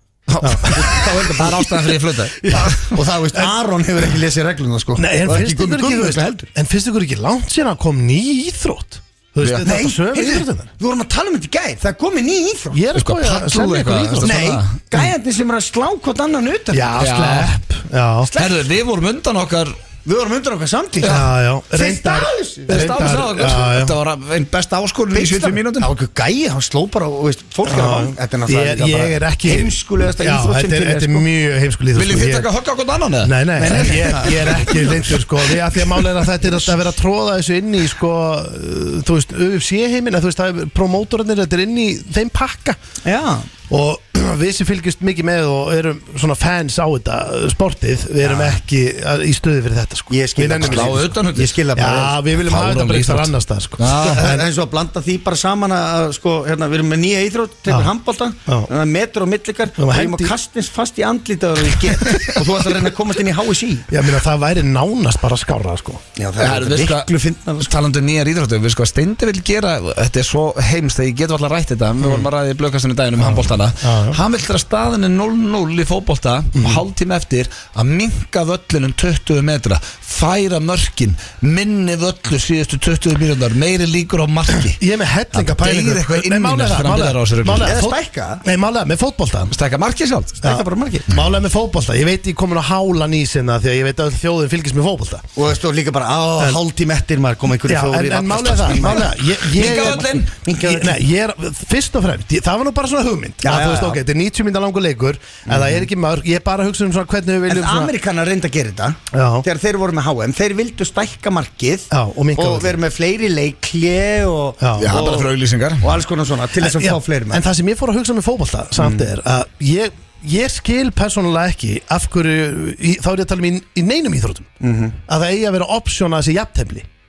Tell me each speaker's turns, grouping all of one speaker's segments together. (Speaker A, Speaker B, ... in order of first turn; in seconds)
Speaker A: 0.3-3.0, 12.9-14.8, 17.0-17.5, 18.3-19.8, 22.7-25.9, 31.9-34.5, 50.6-51.6, 52.4-54.3, 66.4-84.8, 85.3-87.8, 89.5-90.4, 98.9-100.3, 114.8-116.0
Speaker B: 0.4-0.8, 5.0-10.7, 12.7-14.5, 16.7-18.3, 21.0-23.9, 27.6-32.5, 33.2-42.8, 43.7-51.1, 51.7-54.4, 59.8-60.3, 63.9-66.0, 73.2-74.2, 76.5-76.8, 84.8-89.5, 90.4-95.2, 97.7-107.9, 109.1-109.4, 111.9-112.8, 114.6-115.0, 116.6-124.5, 125.1-126.9
Speaker C: 0.6-6.5, 9.6-12.8, 14.2-17.0, 18.2-18.6, 20.0-23.4, 25.1-31.3, 33.5-35.2, 43.0-43.5, 48.2-48.6, 50.1-52.2, 54.0-63.9, 66.2-67.7, 87.6-88.4, 90.4-91.1, 95.3-101.0, 103.4-104.0, 105.5-105.8, 107.5-117.4, 118.8-119.1, 124.6-125.0